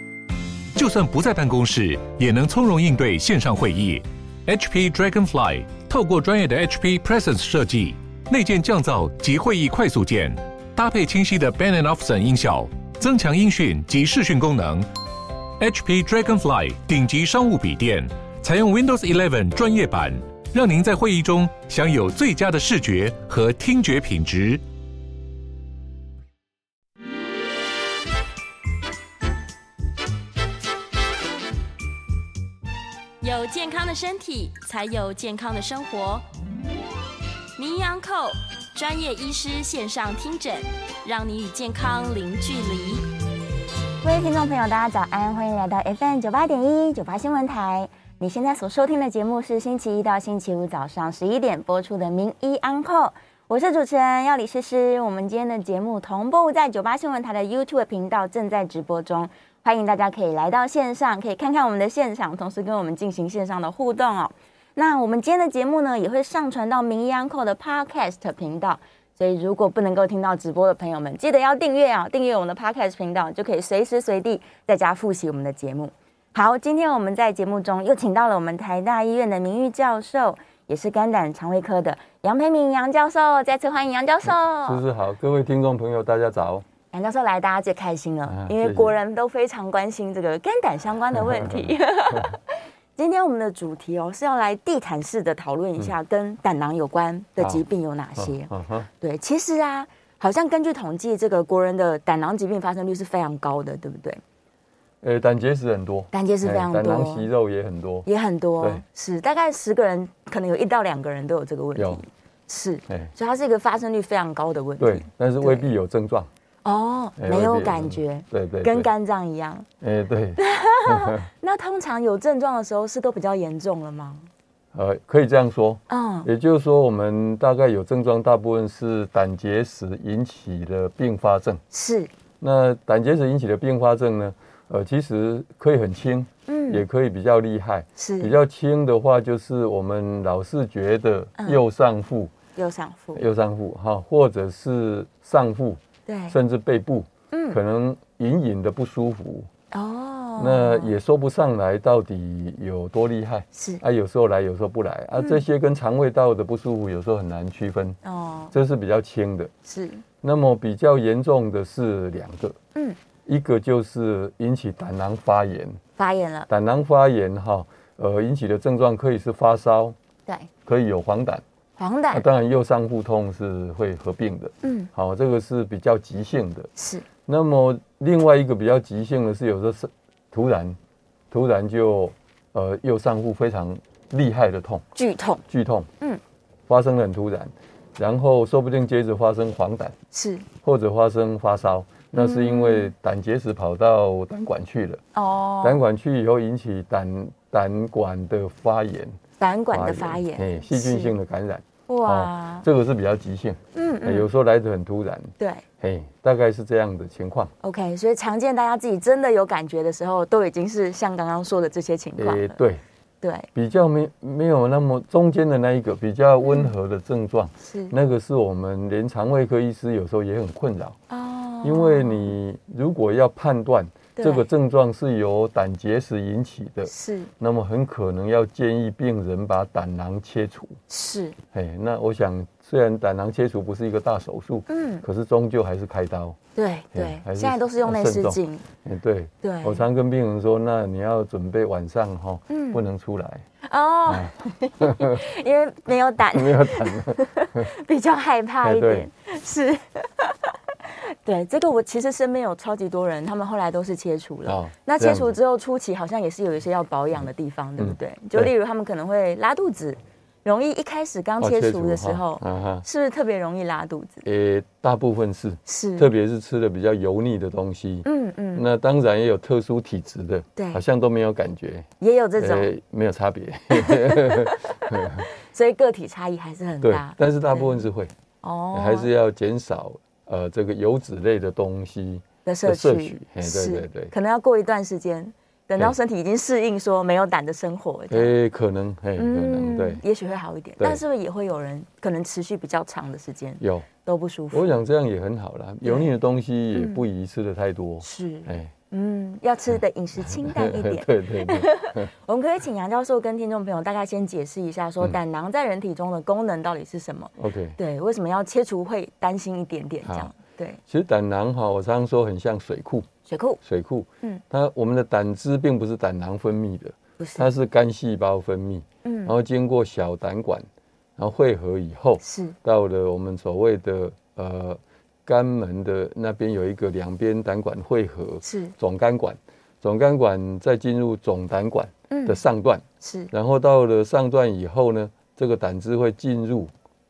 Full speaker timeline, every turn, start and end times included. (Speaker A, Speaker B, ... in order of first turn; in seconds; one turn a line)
Speaker A: 0.8-14.9
Speaker A: 15.6-24.6
Speaker B: 33.2-36.3
Speaker B: 37.6-43.0
Speaker C: 44.0-84.8
Speaker D: 84.2-86.7
Speaker C: 86.9-104.2
Speaker D: 88.3-89.0
Speaker D: 91.1-92.3
Speaker D: 97.4-97.6
Speaker D: 98.2-98.9
Speaker D: 105.0-108.1
Speaker C: 106.1-107.3
Speaker C: 108.1-115.7
Speaker D: 111.8-112.0
Speaker D: 114.8-116.3
Speaker C: 116.6-119.7
Speaker D: 117.2-118.9
Speaker D: 119.8-121.3
Speaker C: 120.4-124.3
Speaker D: 124.7-131.6
Speaker C: 125.9-126.3
Speaker C: 131.7-132.1
Speaker D: 132.4-142.3
Speaker C: 136.5-136.8
Speaker C: 138.0-138.3
Speaker C: 142.6-143.2
Speaker D: 143.1-149.5
Speaker C: 146.1-146.4
Speaker C: 147.3-147.6
Speaker C: 149.7-150.9
Speaker D: 150.4-158.0
Speaker C: 153.5-153.8
Speaker C: 155.2-155.4
Speaker C: 158.0-158.5
Speaker D: 158.5-159.5
Speaker C: 159.7-160.0
Speaker D: 160.2-162.6
Speaker D: 163.3-165.8
Speaker C: 166.0-166.5
Speaker D: 166.5-170.0
Speaker D: 170.7-171.4
Speaker C: 171.8-172.3
Speaker D: 172.1-176.7
Speaker C: 174.6-174.9
Speaker C: 176.8-177.1
Speaker D: 177.3-180.8
Speaker D: 181.3-184.8
Speaker C: 185.0-185.4
Speaker D: 185.5-185.9
Speaker D: 186.7-189.9
Speaker C: 190.1-190.5
Speaker D: 190.6-195.0
Speaker C: 192.2-192.9
Speaker C: 195.1-195.8
Speaker D: 195.6-199.2
Speaker C: 199.4-201.2
Speaker D: 199.7-207.5
Speaker C: 201.9-202.7
Speaker C: 203.8-204.3
Speaker C: 205.4-205.7
Speaker C: 207.6-212.6
Speaker D: 212.2-212.8
Speaker C: 213.2-213.5
Speaker D: 213.6-221.0
Speaker C: 216.4-216.7
Speaker C: 217.6-217.9
Speaker C: 221.1-222.3
Speaker D: 221.6-230.8
Speaker C: 224.2-224.4
Speaker C: 226.9-227.3
Speaker C: 230.9-231.4
Speaker D: 231.5-236.4
Speaker C: 234.7-235.0
Speaker C: 236.6-238.6
Speaker D: 236.9-243.5
Speaker C: 239.4-239.9
Speaker C: 242.5-242.8
Speaker C: 243.6-264.2
Speaker D: 244.1-245.2
Speaker D: 246.3-247.7
Speaker D: 248.6-249.1
Speaker D: 254.5-255.3
Speaker D: 257.8-258.5
Speaker D: 261.4-262.9
Speaker D: 264.2-275.3
Speaker C: 265.7-266.1
Speaker C: 268.1-268.6
Speaker C: 270.6-270.8
Speaker C: 272.0-272.7
Speaker C: 273.7-277.9
Speaker D: 276.8-278.1
Speaker C: 278.4-279.1
Speaker D: 278.7-284.1
Speaker C: 282.4-288.3
Speaker D: 288.1-290.0
Speaker C: 289.2-294.8
Speaker D: 293.6-293.9
Speaker D: 294.5-298.7
Speaker C: 295.8-296.1
Speaker C: 296.7-297.0
Speaker C: 298.0-310.8
Speaker D: 300.2-302.1
Speaker D: 307.4-307.8
Speaker D: 310.0-310.3
Speaker D: 310.9-313.1
Speaker C: 313.3-313.6
Speaker D: 313.6-336.7
Speaker C: 317.2-317.5
Speaker C: 319.1-319.4
Speaker C: 322.2-322.6
Speaker C: 328.4-328.7
Speaker C: 332.1-332.4
Speaker C: 333.0-333.3